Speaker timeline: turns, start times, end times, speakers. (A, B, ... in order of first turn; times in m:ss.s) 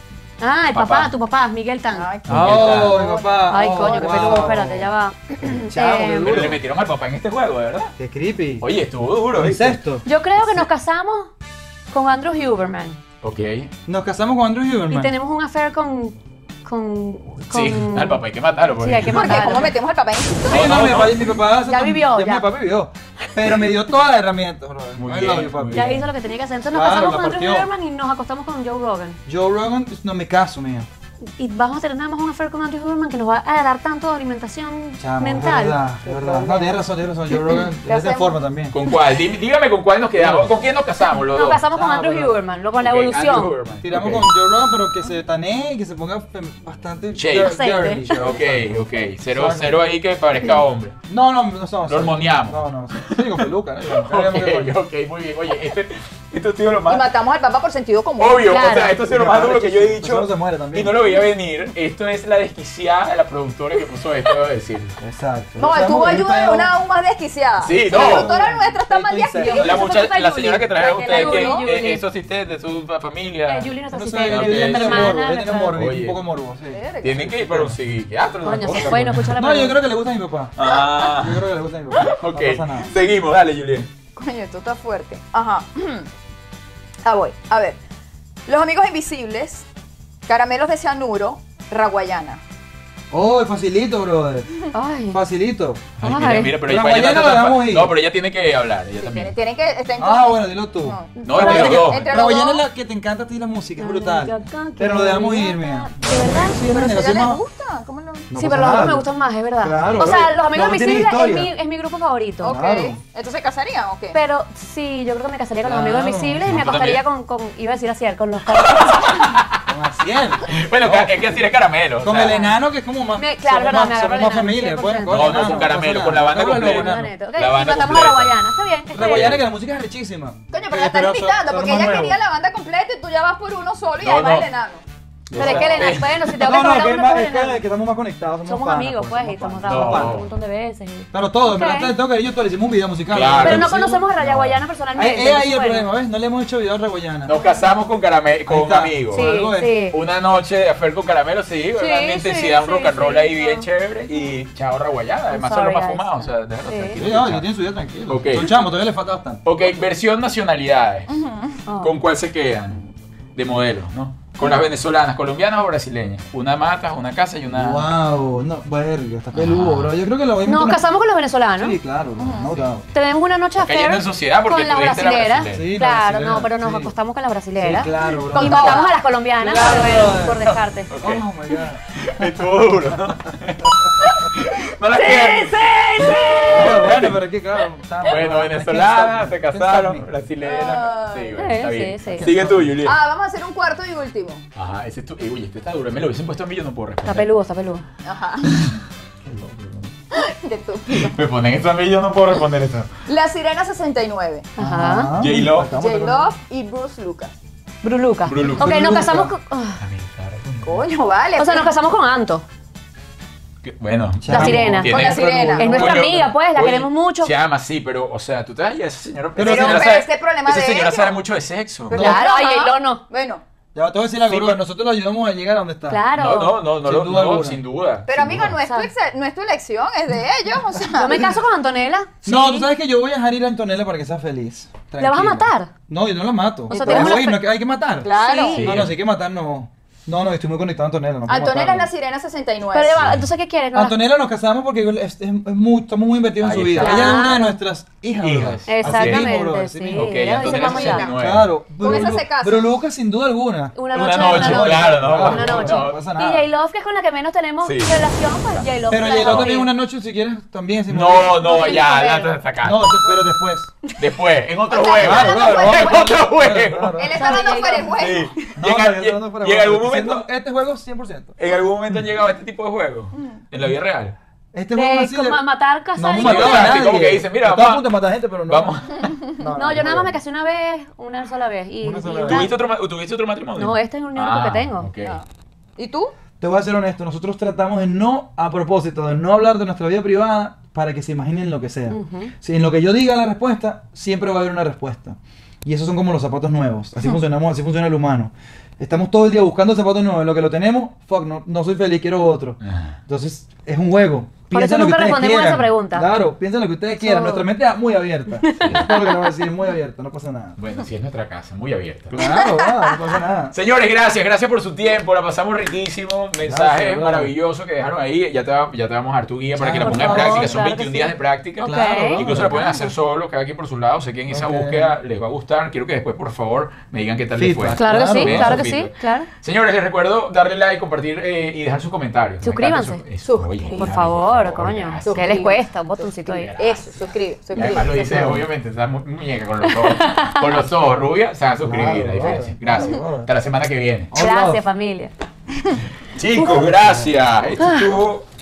0:00.4-0:02.1 A
0:00.7-0:01.1 B
0:01.9-0:04.7 C
0:02.3-0:03.1 B
0:02.3-0:06.6 D
0:03.4-0:06.5 A
0:06.2-0:07.9 B
0:08.0-0:08.6 D
0:08.6-0:09.8 B
0:09.3-0:10.0 D
0:10.0-0:11.3 A
0:11.9-0:13.0 A
0:13.2-0:13.7 B
0:13.8-0:15.1 D
0:14.9-0:18.2 A
0:17.5-0:19.7 B
0:18.8-0:19.8 A
0:19.0-0:20.9 C
0:20.4-0:21.4 B
0:20.4-0:26.0 D
0:21.7-0:22.5 A
0:25.0-0:26.1 B
0:25.7-0:29.2 A
0:26.7-0:27.7 D
0:29.2-0:30.9 D
0:31.4-0:36.8 A
0:35.0-0:38.8 D
0:37.8-0:38.4 C
0:38.7-0:41.6 B
0:40.2-0:40.6 D
0:41.2-0:43.5 A
0:41.7-0:42.4 D
0:42.8-0:44.3 B
0:43.8-0:49.8 D
0:47.1-0:50.9 B
0:47.3-0:48.2 A
0:51.1-0:54.7 D
0:51.8-0:57.1 B
0:56.9-0:58.7 C
0:58.2-1:05.0 B
0:58.4-0:58.9 A
0:58.9-1:01.1 D
1:05.0-1:06.7 D
1:05.6-1:09.9 C
1:07.6-1:08.4 B
1:07.8-1:09.8 D
1:09.4-1:12.0 A
1:09.4-1:13.7 B
1:10.8-1:11.6 C
1:13.5-1:15.8 A
1:13.9-1:17.8 D
1:14.2-1:16.2 B
1:16.7-1:17.4 C
1:17.0-1:19.3 B
1:18.4-1:19.8 A
1:18.6-1:22.9 D
1:20.6-1:23.9 B
1:20.6-1:21.2 C
1:24.2-1:26.1 C
1:27.0-1:27.8 C
1:28.4-1:29.6 C
1:30.2-1:32.4 C
1:33.1-1:35.9 D
1:34.7-1:35.2 A
1:36.0-1:39.3 B
1:36.0-1:36.6 A
1:36.6-1:38.0 D
1:39.0-1:42.6 C
1:40.0-1:47.4 D
1:41.2-1:41.8 A
1:41.2-1:42.3 B
1:43.8-1:46.6 A
1:46.5-1:48.3 C
1:48.3-1:51.5 D
1:48.3-1:52.8 A
1:49.7-1:50.2 B
1:52.4-1:54.2 C
1:52.4-1:53.0 D
1:54.1-1:59.4 A
1:55.6-1:56.4 D
1:56.4-1:57.0 B
1:58.5-1:59.6 B
1:59.6-2:01.4 D
2:00.4-2:02.4 B
2:02.0-2:07.1 D
2:02.2-2:02.5 A
2:03.2-2:05.7 A
2:05.1-2:08.3 B
2:06.4-2:09.4 A
2:08.9-2:12.2 D
2:09.0-2:09.4 B
2:10.5-2:14.8 C
2:14.0-2:14.5 B
2:15.3-2:16.2 B
2:15.3-2:15.8 D
2:15.4-2:17.6 A
2:16.4-2:20.2 D
2:18.4-2:21.9 A
2:19.6-2:20.3 B
2:21.1-2:24.0 D
2:23.1-2:24.6 B
2:23.4-2:25.9 A
2:25.0-2:27.4 D
2:27.2-2:29.2 B
2:28.5-2:29.7 D
2:29.1-2:30.0 A
2:29.9-2:37.5 B
2:31.7-2:33.6 A
2:35.3-2:37.0 A
2:37.0-2:39.4 D
2:38.1-2:38.5 B
2:39.4-2:41.1 B
2:41.1-2:41.6 C
2:41.7-2:42.0 A
2:41.8-2:42.8 B
2:43.4-2:47.9 B
2:47.5-2:50.8 D
2:49.3-2:49.9 B
2:50.4-2:51.8 A
2:51.6-2:52.9 D
2:52.2-2:52.6 C
2:52.9-3:00.9 A
2:53.6-2:55.7 B
2:55.5-2:56.9 D
2:57.6-2:58.9 D
2:58.0-2:59.0 C
2:59.4-3:01.8 D
3:00.9-3:01.2 B
3:01.9-3:07.2 B
3:04.9-3:06.9 C
3:06.5-3:10.1 D
3:08.0-3:13.0 B
3:10.4-3:11.4 C
3:11.4-3:12.3 A
3:12.1-3:12.8 D
3:12.8-3:14.4 C
3:14.5-3:17.3 B
3:17.0-3:17.8 A
3:18.0-3:18.5 C
3:18.5-3:18.8 B
3:19.2-3:19.9 D
3:20.1-3:21.2 C
3:20.9-3:22.9 B
3:23.1-3:24.5 C
3:24.6-3:25.1 A
3:24.6-3:26.3 D
3:25.2-3:25.7 B
3:25.6-3:27.3 C
3:27.8-3:29.8 A
3:28.2-3:29.1 B
3:28.5-3:29.3 D
3:29.8-3:30.8 B
3:30.6-3:31.7 C
3:31.4-3:32.4 A
3:33.6-3:42.1 B
3:34.2-3:36.0 D
3:34.3-3:37.3 A
3:34.9-3:35.7 C
3:39.4-3:39.9 D
3:39.4-3:41.2 C
3:41.9-3:43.4 C
3:41.9-3:43.0 A
3:43.7-3:46.0 D
3:44.3-3:44.6 B
3:45.9-3:46.6 A
3:46.1-3:48.6 B
3:46.8-3:47.6 D
3:48.1-3:51.4 C
3:48.2-3:48.6 D
3:48.6-3:48.9 A
3:50.9-3:52.7 A
3:52.2-4:01.9 D
3:55.0-3:55.7 A
3:56.7-3:57.3 C
3:56.7-3:57.4 A
3:58.0-3:58.7 C
3:58.1-3:58.7 A
3:58.5-3:58.9 B
4:01.2-4:03.0 C
4:02.7-4:04.0 A
4:03.0-4:03.3 B
4:03.7-4:16.4 D
4:06.4-4:07.3 B
4:06.8-4:07.5 A
4:08.2-4:09.4 B
4:08.7-4:11.1 A
4:09.9-4:11.5 B
4:10.5-4:11.0 C
4:11.8-4:12.7 C
4:13.8-4:19.7 A
4:13.9-4:16.0 B
4:17.6-4:19.6 B
4:18.9-4:21.8 D
4:20.9-4:23.0 B
4:21.4-4:22.3 A
4:21.7-4:22.0 C
4:22.6-4:23.7 D
4:24.0-4:27.1 B
4:24.7-4:26.0 C
4:24.9-4:27.4 D
4:27.0-4:28.4 C
4:27.1-4:28.0 A
4:27.8-4:30.3 B
4:28.5-4:31.4 D
4:31.4-4:34.1 B
4:34.5-4:35.4 D
4:34.7-4:36.9 A
4:36.0-4:38.7 D
4:36.2-4:37.9 B
4:38.4-4:39.1 B
4:39.3-4:40.2 D
4:39.5-4:42.5 A
4:41.8-4:42.5 D
4:42.2-4:45.2 B
4:43.6-4:44.9 A
4:45.8-4:46.1 C
4:46.4-5:10.6 D
4:51.9-4:52.3 A
5:02.6-5:02.9 B
5:04.5-5:06.1 A
5:06.9-5:07.4 A
5:08.4-5:09.0 A
5:10.6-5:12.3 B
5:12.1-5:13.5 D
5:12.2-5:13.0 C
5:13.5-5:35.4 B
5:16.4-5:17.3 D
5:19.6-5:20.6 D
5:19.8-5:22.8 A
5:21.6-5:22.6 D
5:22.5-5:22.8 C
5:24.3-5:24.9 D
5:27.3-5:28.6 D
5:27.7-5:29.3 A
5:32.4-5:33.0 A
5:33.2-5:34.0 C
5:33.8-5:36.5 A
5:35.0-5:35.6 C
5:36.2-5:37.0 B
5:36.6-5:38.4 C
5:37.5-5:44.1 B
5:37.6-5:38.4 D
5:39.6-5:40.6 A
5:41.6-5:43.3 D
5:44.1-5:44.6 D
5:44.1-5:45.1 A
5:46.1-5:48.3 B
5:46.3-5:47.1 D
5:47.6-5:47.9 A